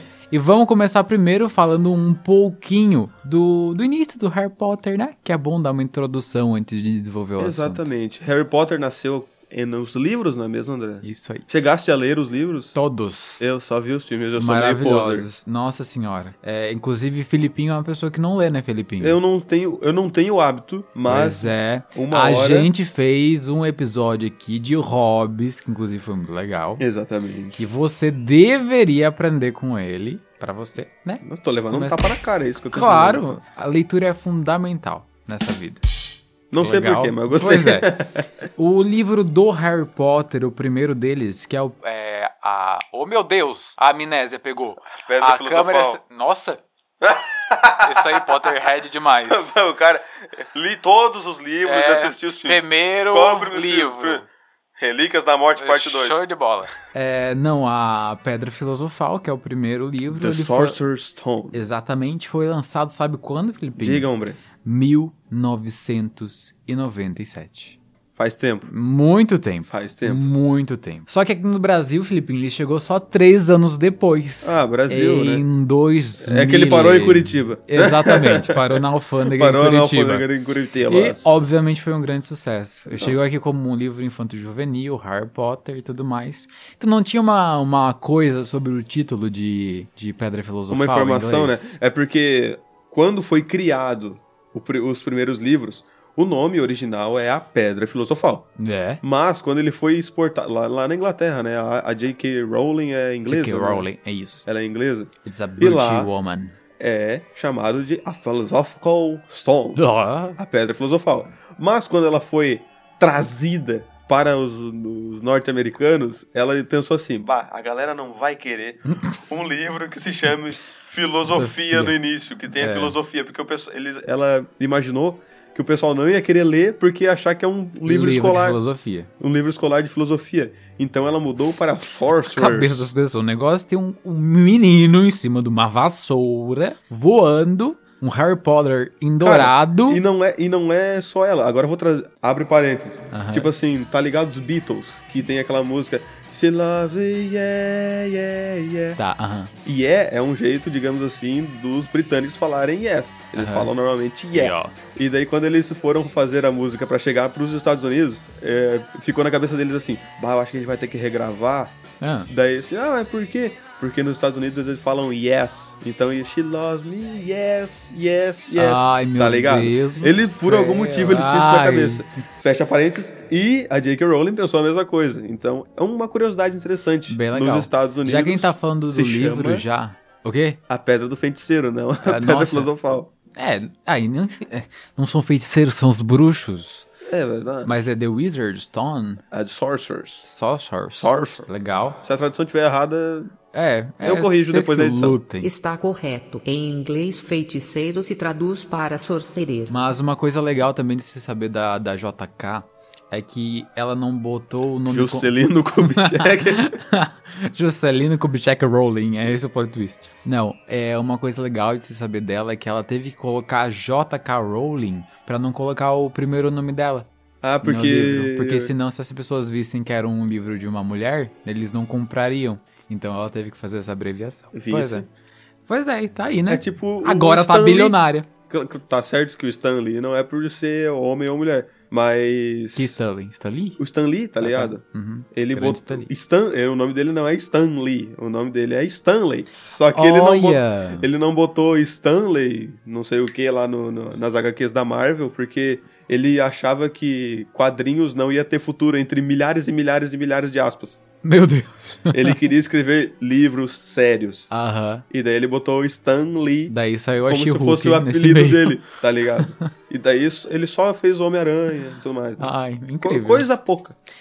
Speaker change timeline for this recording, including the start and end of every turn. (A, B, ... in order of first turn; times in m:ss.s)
0:00.3-0:07.9 A
0:07.4-0:12.8 B
0:11.0-0:11.5 A
0:12.8-0:13.4 A
0:13.4-0:15.3 B
0:14.4-0:19.2 A
0:19.0-0:22.7 B
0:21.1-0:26.8 A
0:26.8-0:27.7 B
0:27.6-0:32.1 A
0:31.2-0:33.4 B
0:32.7-0:35.9 A
0:36.5-0:38.3 B
0:36.6-0:37.9 A
0:38.6-0:46.6 A
0:45.1-0:46.0 B
0:47.0-0:48.5 B
0:47.8-0:49.5 A
0:49.3-0:54.2 B
0:51.6-0:54.3 A
0:54.8-0:56.2 B
0:55.6-1:00.8 A
1:00.1-1:01.6 B
1:01.5-1:04.1 A
1:03.8-1:04.4 B
1:04.6-1:07.8 A
1:08.2-1:08.7 B
1:08.7-1:20.3 A
1:09.7-1:10.3 B
1:14.4-1:15.4 B
1:16.2-1:21.3 B
1:20.9-1:31.8 A
1:22.9-1:23.2 B
1:30.7-1:38.5 B
1:38.6-1:39.0 A
1:39.0-1:43.9 B
1:43.3-1:44.4 A
1:44.5-1:46.1 B
1:45.2-1:46.6 A
1:46.8-1:49.8 B
1:49.8-1:50.4 A
1:50.4-2:08.6 B
2:01.3-2:02.0 A
2:02.6-2:03.0 A
2:07.8-2:09.1 A
2:09.2-2:12.9 B
2:12.2-2:20.0 A
2:19.2-2:29.0 B
2:23.1-2:23.5 A
2:29.0-2:29.5 A
2:29.6-2:41.8 B
2:33.4-2:33.7 A
2:34.3-2:34.8 A
2:42.0-2:42.3 A
2:42.3-2:59.6 B
2:48.6-2:52.0 A
2:57.1-3:00.6 A
3:00.7-3:03.1 B
3:02.0-3:02.8 A
3:03.3-3:06.9 A
3:07.0-3:07.8 B
3:07.6-3:09.2 A
3:09.3-3:10.3 B
3:10.2-3:12.0 A
3:11.0-3:11.5 B
3:12.0-3:13.3 B
3:13.5-3:15.5 A
3:14.0-3:15.2 B
3:15.4-3:19.7 C
3:19.7-3:37.1 A
3:24.9-3:26.8 B
3:37.4-3:38.7 B
3:37.6-3:45.1 A
3:44.5-3:45.1 B
3:45.7-3:48.3 A
3:46.5-3:48.0 B
3:48.5-3:53.0 B
3:52.8-3:53.8 A
3:53.8-3:54.8 B
3:54.4-3:56.1 A
3:55.3-4:11.0 B
3:59.9-4:01.1 A
4:11.2-4:12.4 A
4:12.1-4:14.5 B
4:14.5-4:15.1 A
4:15.1-4:16.7 B
4:16.7-4:19.6 A
4:17.3-4:24.0 B
4:22.4-4:23.5 A